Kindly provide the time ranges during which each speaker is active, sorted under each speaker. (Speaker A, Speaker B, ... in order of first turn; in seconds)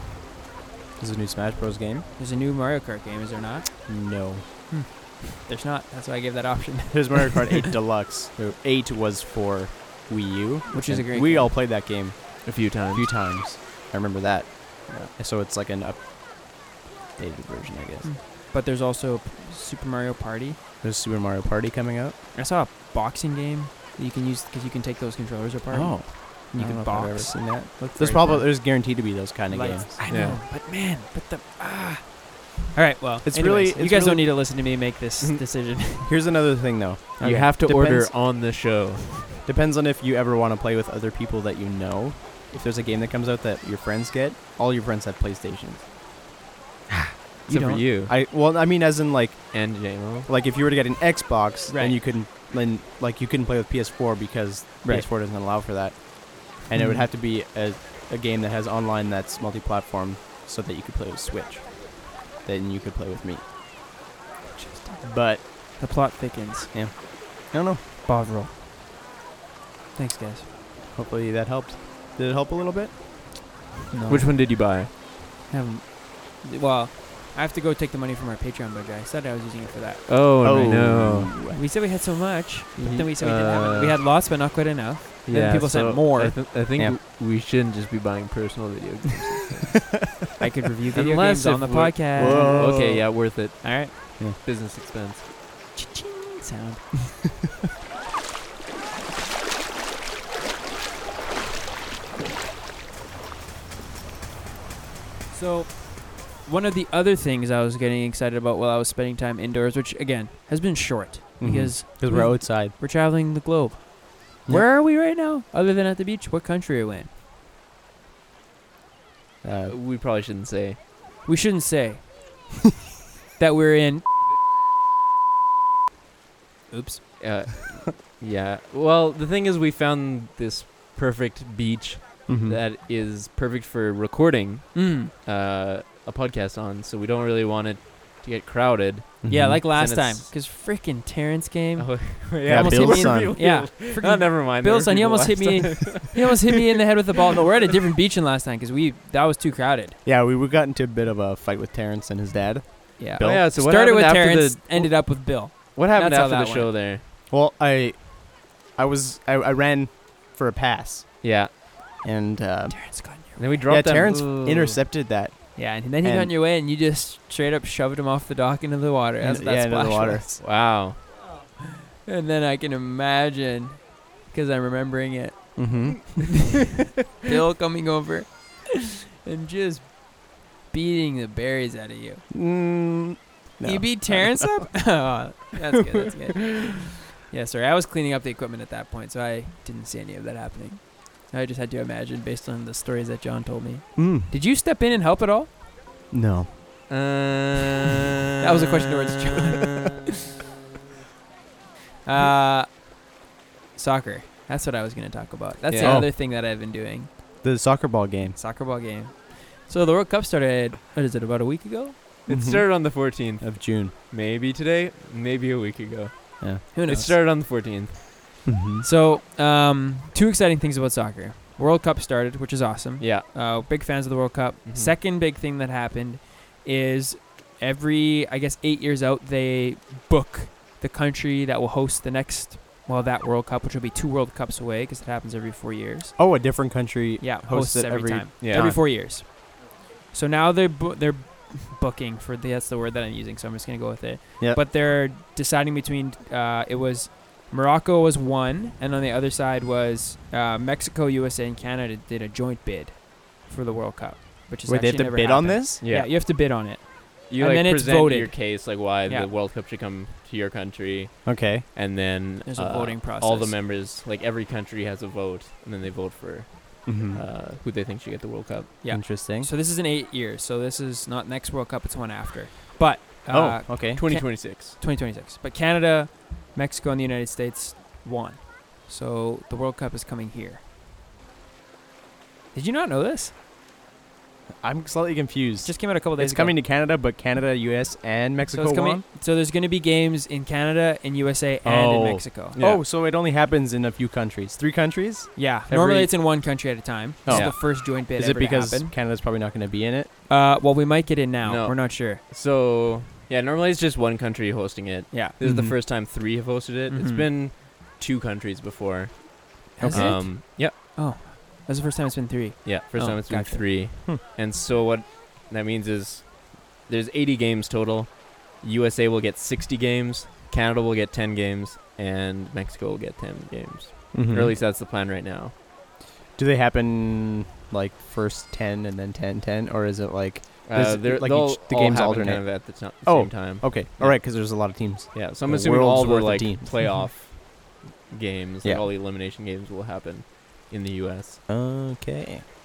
Speaker A: 1.0-2.1, 3.9-4.5, 6.9-18.1, 20.8-22.2, 25.7-30.0, 33.2-34.3, 36.1-37.3, 39.5-45.9, 48.0-63.4, 65.0-65.4, 66.7-67.8, 70.9-73.0, 80.4-81.6, 92.2-93.1, 111.4-112.7, 119.4-119.8, 132.3-132.6, 139.2-139.6, 142.4-143.5, 150.1-153.4, 157.3-161.4, 162.0-163.0, 163.7-166.3, 169.2-170.4, 175.6-176.5, 182.3-184.8, 193.9-194.3, 196.1-196.6, 205.8-206.1, 207.4-208.4, 212.3-213.9, 216.4-216.7, 218.5-218.9, 236.2-238.8, 254.7-255.8, 261.2-261.6, 266.9-267.2, 268.9-269.5, 273.3-274.0, 284.6-289.0, 291.6-296.1, 297.2-300.1, 305.4-305.8, 309.8-310.2, 324.1-324.6, 326.4-337.0, 341.5-342.5
Speaker B: 2.2-7.7, 10.7-11.6, 18.0-20.6, 22.3-36.2, 37.2-38.3, 47.4-47.8, 51.7-52.0, 54.8-55.1, 56.7-57.1, 64.5-66.7, 68.0-68.5, 70.0-70.5, 73.9-74.5, 75.5-80.1, 81.5-86.4, 90.4-93.9, 95.7-96.9, 105.3-117.1, 121.2-122.1, 123.4-124.1, 126.7-127.2, 134.7-135.1, 139.3-150.0, 153.0-156.7, 162.7-163.7, 165.6-170.4, 171.8-176.1, 177.2-182.3, 183.6-195.5, 198.4-200.0, 202.1-202.8, 203.7-207.1, 208.3-212.1, 216.7-217.2, 218.8-236.2, 237.2-239.6, 240.1-259.3, 262.4-263.6, 268.8-280.6, 282.5-283.3, 285.6-286.6, 288.5-292.6, 295.4-298.9, 300.3-302.2, 306.9-307.3, 309.8-313.8
Speaker C: 12.4-13.1, 30.1-30.4, 37.2-39.2, 47.5-48.1, 49.5-50.3, 74.1-74.9, 80.1-81.3, 82.8-84.0, 85.3-90.1, 91.0-95.3, 119.7-120.8, 127.2-140.3, 141.8-146.2, 153.2-157.0, 161.2-161.5, 163.4-164.7, 170.4-171.0, 196.9-198.7, 199.2-199.7, 205.7-206.0, 212.3-218.1, 223.0-223.3, 224.7-224.9, 238.4-238.8, 255.8-256.4, 257.3-268.8, 273.9-274.8, 292.6-292.8, 297.3-297.6, 301.4-310.8, 312.6-325.5, 330.6-341.4